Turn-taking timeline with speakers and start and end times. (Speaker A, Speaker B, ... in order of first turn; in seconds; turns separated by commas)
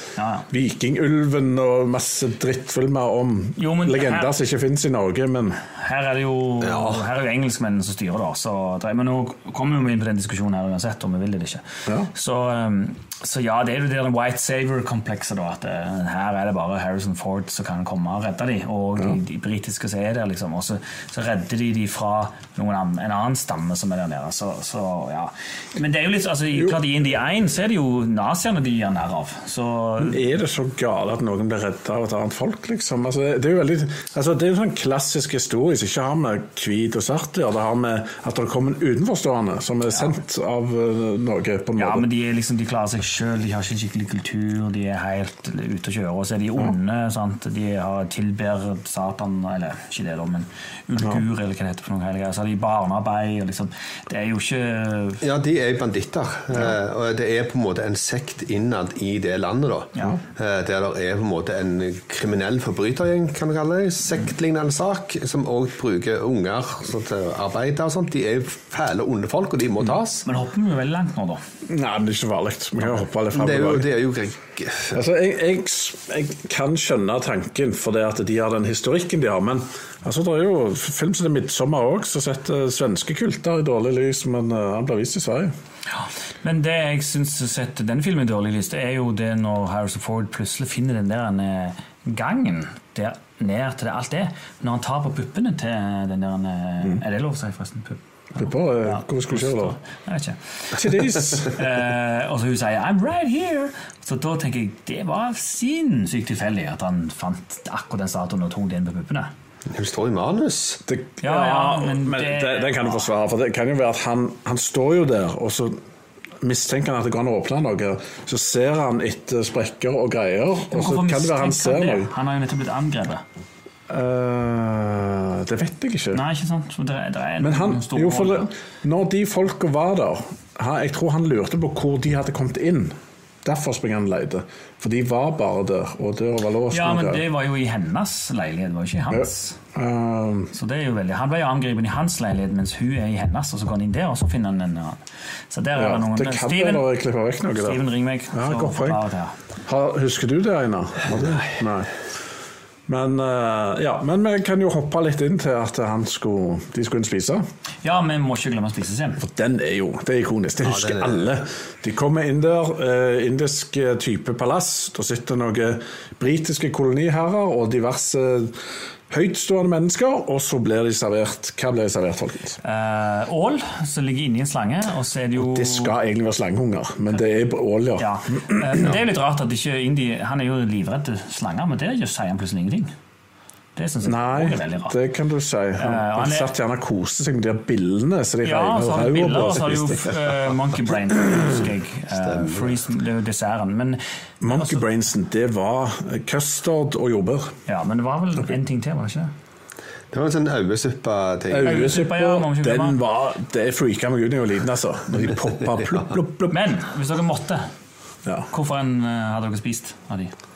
Speaker A: 0.2-0.5, Speaker B: 0.5-5.6, Speaker A: 3.6-4.3, Speaker A: 5.7-30.2, Speaker B: 30.0-42.1, Speaker A: 41.8-55.2, Speaker C: 55.2-70.2, Speaker A: 70.2-71.4, Speaker B: 71.7-73.9, Speaker C: 73.3-75.0, Speaker B: 74.9-85.5, Speaker A: 86.0-109.3, Speaker B: 98.3-99.8, Speaker B: 100.8-101.5, Speaker C: 109.7-110.8, Speaker B: 110.9-115.8, Speaker A: 111.2-113.1, Speaker B: 116.4-122.1, Speaker A: 120.7-123.2, Speaker B: 123.9-126.2, Speaker A: 126.1-128.5, Speaker B: 127.4-137.2, Speaker A: 136.7-139.6, Speaker B: 139.1-140.5, Speaker A: 140.5-146.9, Speaker B: 145.8-149.0, Speaker A: 147.5-149.3, Speaker B: 149.7-151.9, Speaker B: 152.9-157.4, Speaker A: 157.8-159.2, Speaker B: 159.2-168.6, Speaker C: 160.6-161.4, Speaker B: 169.1-172.6, Speaker A: 172.6-175.9, Speaker B: 175.4-178.9, Speaker A: 178.0-182.9, Speaker A: 183.8-184.9, Speaker B: 184.0-190.1, Speaker A: 185.8-186.5, Speaker A: 188.4-194.8, Speaker C: 192.1-192.8, Speaker B: 194.4-197.5, Speaker A: 197.7-199.3, Speaker C: 200.1-201.8, Speaker B: 201.5-206.6, Speaker A: 201.6-203.0, Speaker A: 206.5-207.7, Speaker A: 208.5-210.3